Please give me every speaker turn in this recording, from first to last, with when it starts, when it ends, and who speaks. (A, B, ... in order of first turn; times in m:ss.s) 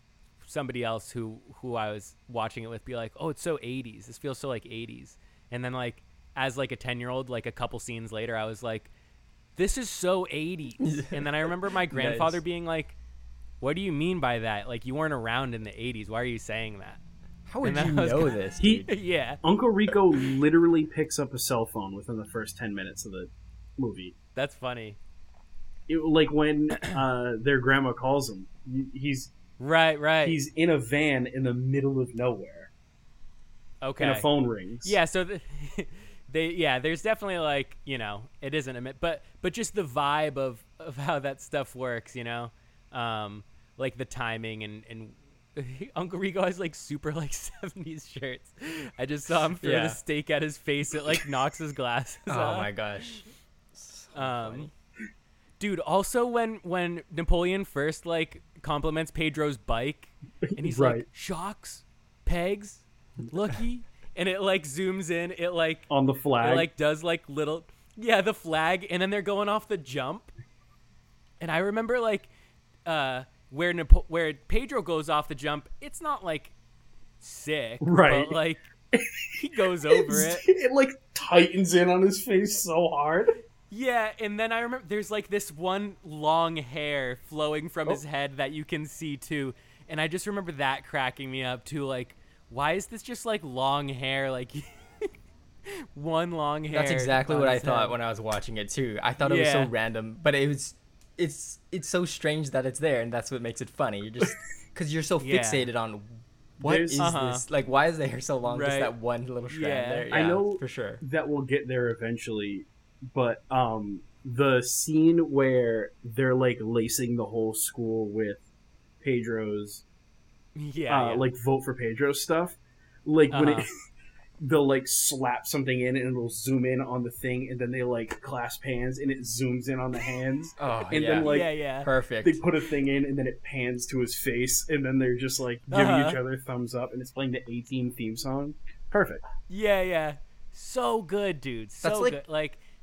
0:00.4-0:08.9 A
0:09.6-0:13.0 A
0:10.8-0:12.4 B
0:13.6-0:17.0 A
0:17.5-0:18.9 B
0:17.6-0:18.3 A
0:18.6-0:18.8 C
0:18.9-0:19.4 A
0:19.4-0:24.1 C
0:24.3-0:25.0 A
0:25.9-0:29.3 C
0:29.6-0:30.4 A
0:30.2-0:32.7 C
0:33.8-0:34.3 A
0:34.0-0:35.0 C
0:34.8-0:53.2 A
0:49.6-0:50.0 B
0:52.3-0:54.7 B
0:54.1-0:54.7 A
0:55.6-1:05.9 A
1:00.5-1:01.0 C
1:05.9-1:06.7 C
1:06.4-1:10.3 A
1:11.4-1:12.3 A
1:12.8-1:16.5 A
1:17.2-1:18.6 A
1:17.8-1:18.4 C
1:18.9-1:23.4 C
1:19.3-1:20.4 A
1:23.7-1:35.1 A
1:35.7-1:38.0 A
1:36.7-1:51.0 B
1:39.2-1:39.7 A
1:45.2-1:45.7 A
1:46.6-1:47.1 C
1:47.0-1:47.4 A
1:48.4-1:48.9 A
1:49.5-1:50.1 A
1:50.1-1:58.4 C
1:59.0-1:59.8 C
2:00.6-2:01.3 A
2:00.9-2:03.7 C
2:03.3-2:03.7 A
2:04.4-2:11.5 C
2:10.6-2:12.4 B
2:11.2-2:11.9 A
2:12.2-2:19.2 C
2:15.7-2:16.2 A
2:19.5-2:22.6 A
2:21.8-2:22.2 B